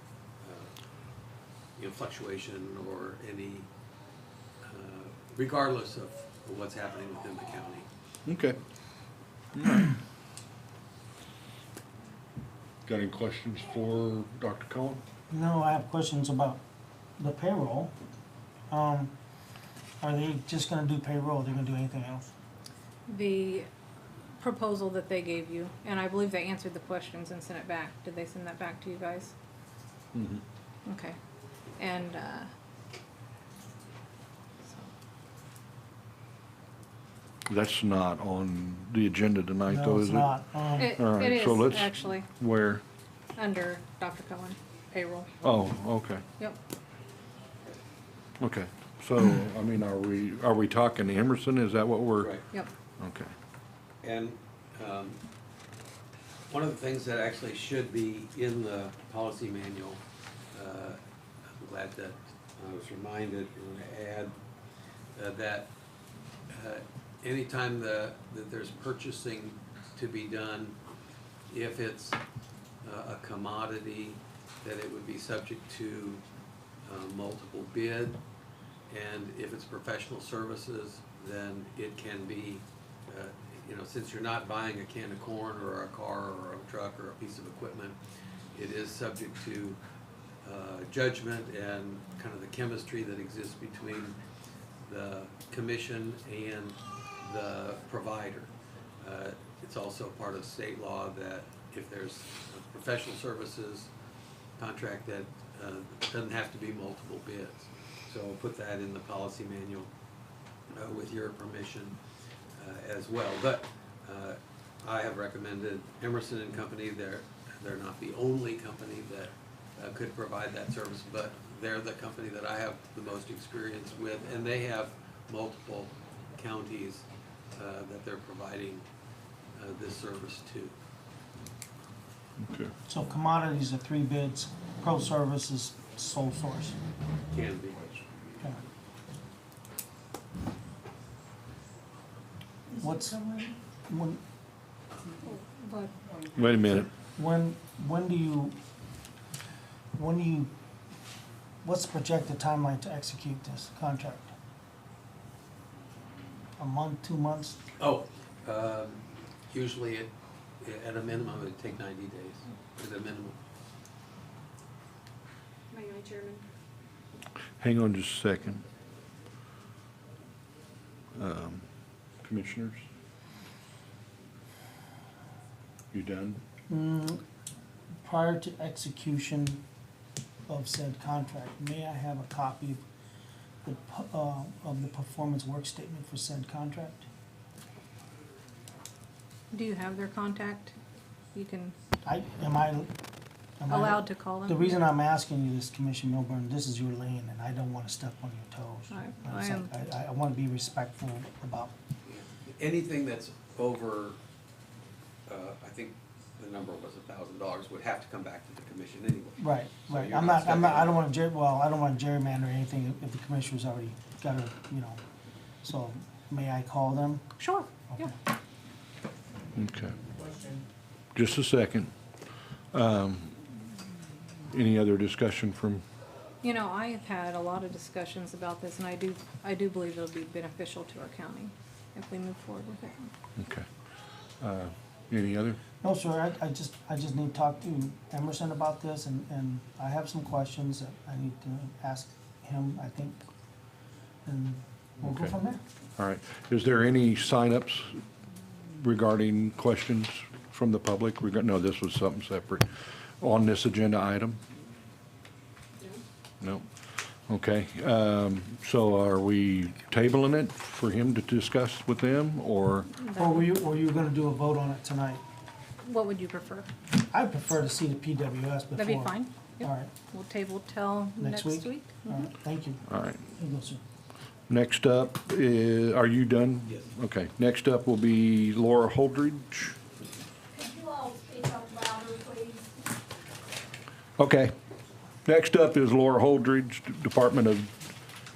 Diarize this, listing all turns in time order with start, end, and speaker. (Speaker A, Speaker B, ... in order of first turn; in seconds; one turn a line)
Speaker A: 0.4-0.7
Speaker A: 1.8-3.7
Speaker A: 4.6-7.9
Speaker B: 8.2-8.6
Speaker B: 9.5-9.9
Speaker B: 12.8-15.0
Speaker C: 15.3-16.6
Speaker C: 17.2-17.9
Speaker C: 18.7-19.1
Speaker C: 20.0-22.3
Speaker D: 23.1-23.7
Speaker D: 24.4-29.3
Speaker B: 30.1-30.4
Speaker D: 30.9-31.2
Speaker D: 31.8-32.5
Speaker D: 34.6-34.9
Speaker B: 37.5-40.3
Speaker C: 39.7-41.0
Speaker D: 40.8-42.3
Speaker B: 40.9-42.8
Speaker D: 43.4-45.3
Speaker B: 45.4-46.2
Speaker B: 48.4-52.3
Speaker B: 53.0-53.3
Speaker A: 54.0-55.2
Speaker A: 56.5-60.0
Speaker A: 60.5-61.0
Speaker A: 61.5-64.3
Speaker A: 65.1-65.7
Speaker A: 66.5-70.8
Speaker A: 71.5-72.2
Speaker A: 72.8-76.2
Speaker A: 76.8-78.2
Speaker A: 78.9-88.0
Speaker A: 88.5-89.8
Speaker A: 90.4-94.2
Speaker A: 94.8-103.9
Speaker A: 104.6-109.9
Speaker A: 110.7-112.0
Speaker A: 112.5-128.8
Speaker A: 129.5-130.8
Speaker B: 132.4-132.7
Speaker C: 132.9-136.8
Speaker A: 137.3-137.9
Speaker C: 142.7-143.3
Speaker C: 143.9-144.2
Speaker D: 145.2-145.9
Speaker B: 146.3-146.9
Speaker C: 147.2-148.6
Speaker C: 149.9-150.5
Speaker C: 151.6-154.3
Speaker C: 156.6-157.6
Speaker A: 157.8-163.3
Speaker E: 165.7-166.4
Speaker B: 167.6-168.6
Speaker B: 171.2-171.6
Speaker B: 172.2-172.8
Speaker B: 175.9-176.4
Speaker C: 176.7-177.2
Speaker C: 178.0-179.6
Speaker C: 180.5-182.8
Speaker C: 183.6-187.1
Speaker D: 189.5-190.8
Speaker D: 191.3-191.8
Speaker C: 192.0-192.9
Speaker C: 193.6-201.7
Speaker D: 193.7-194.8
Speaker D: 198.9-199.7
Speaker A: 202.0-204.2
Speaker A: 205.3-211.0
Speaker C: 209.4-215.0
Speaker C: 215.6-217.2
Speaker D: 217.4-218.1
Speaker C: 217.9-218.2
Speaker B: 219.6-219.9
Speaker B: 221.1-221.9
Speaker B: 222.7-223.5
Speaker B: 224.5-225.8
Speaker D: 226.4-233.1
Speaker B: 233.4-233.7
Speaker B: 234.4-235.6
Speaker C: 235.8-243.2
Speaker C: 244.2-245.6
Speaker B: 245.0-245.3
Speaker B: 246.0-248.0
Speaker B: 248.6-252.7
Speaker B: 253.2-254.4
Speaker B: 256.4-256.7
Speaker B: 257.3-262.9
Speaker D: 262.9-263.5
Speaker C: 263.1-265.2
Speaker D: 265.8-266.7
Speaker C: 267.0-269.9
Speaker D: 268.8-272.3
Speaker C: 271.2-272.8
Speaker B: 272.9-273.2
Speaker C: 273.3-273.8
Speaker B: 274.5-279.8
Speaker E: 280.5-282.8
Speaker B: 284.2-284.5
Speaker B: 285.2-287.7